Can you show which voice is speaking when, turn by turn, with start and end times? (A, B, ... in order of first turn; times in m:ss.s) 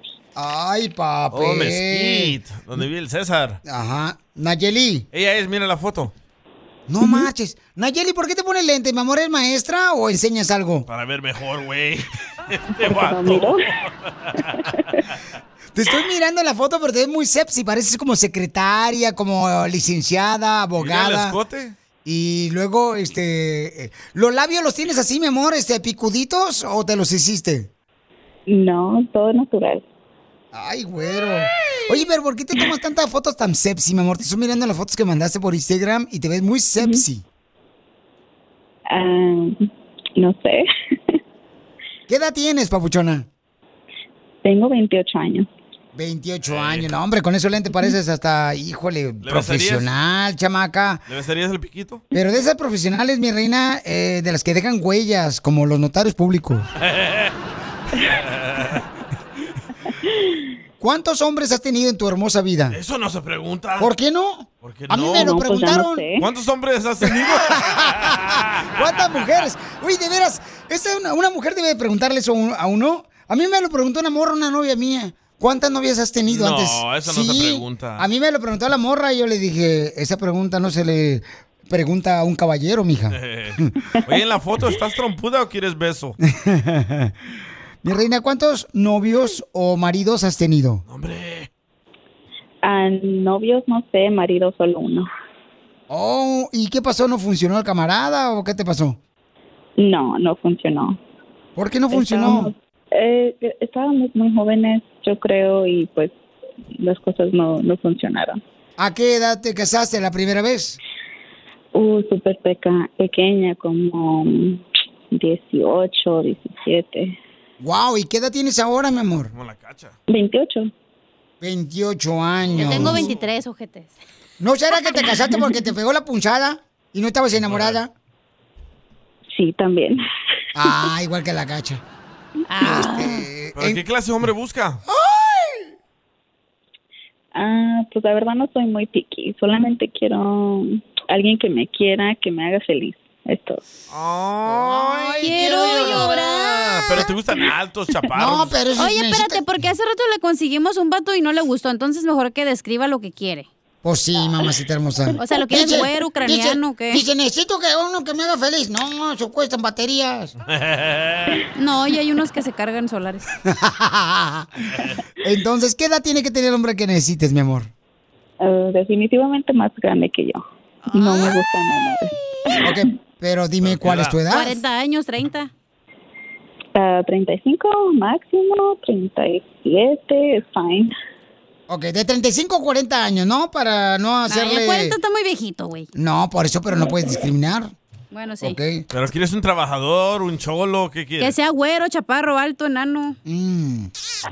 0:00.3-0:02.4 A
0:01.3-0:03.6 B
0:03.6-0:05.0 A
0:05.1-0:06.1 B
0:06.9-0:10.9 A
0:10.9-0:14.3 B
0:12.9-0:13.4 C
0:15.7-0:21.4 A
0:20.8-0:21.7 B
0:22.0-0:27.7 A
0:28.5-0:29.8 C
0:30.5-0:37.2 A
0:39.0-0:39.5 C
0:40.2-0:40.6 C
0:42.1-0:43.3 A
0:44.4-0:45.4 C
0:45.9-0:51.0 A
0:46.4-0:46.9 B
0:49.2-0:49.9 B
0:51.1-0:52.0 B
0:52.1-0:56.7 A
0:56.8-0:57.3 B
0:58.1-0:58.8 B
1:00.8-1:02.8 A
1:02.7-1:03.9 B
1:03.8-1:06.1 A
1:04.6-1:05.4 B
1:05.2-1:06.0 C
1:06.2-1:09.4 B
1:07.0-1:23.7 A
1:16.3-1:18.0 B
1:23.1-1:26.2 B
1:26.3-1:27.1 A
1:27.8-1:30.8 A
1:30.9-1:31.5 B
1:32.6-1:35.0 C
1:35.9-1:39.0 A
1:39.8-1:41.0 C
1:41.6-1:42.5 A
1:41.9-1:46.1 C
1:46.8-1:48.4 C
1:48.8-1:50.8 A
1:51.8-1:54.6 C
1:55.1-1:57.1 C
1:57.6-1:59.3 A
1:59.3-2:00.0 B
2:00.1-2:00.7 C
2:01.4-2:03.1 A
2:02.4-2:03.2 B
2:02.6-2:04.0 D
2:04.4-2:07.9 A
2:07.4-2:07.8 B
2:09.3-2:10.0 C
2:10.5-2:11.8 A
2:12.5-2:13.2 D
2:12.6-2:13.8 A
2:13.6-2:14.8 B
2:14.9-2:15.7 A
2:17.3-2:23.6 C
2:23.9-2:28.6 B
2:24.4-2:27.1 A
2:25.2-2:26.7 D
2:28.1-2:29.5 A
2:28.8-2:33.5 D
2:33.8-2:40.3 A
2:35.2-2:37.0 D
2:40.5-2:41.4 B
2:41.6-2:43.2 D
2:43.4-2:47.7 A
2:48.4-2:50.4 C
2:50.9-2:51.4 D
2:50.9-2:52.1 C
2:52.6-2:54.6 A
2:53.6-2:54.2 B
2:54.3-2:55.5 D
2:56.8-3:00.9 C
3:01.7-3:05.0 A
3:04.3-3:05.9 D
3:05.9-3:07.7 A
3:08.1-3:08.6 D
3:08.4-3:08.9 A
3:08.9-3:11.3 B
3:11.2-3:13.2 D
3:13.2-3:13.9 A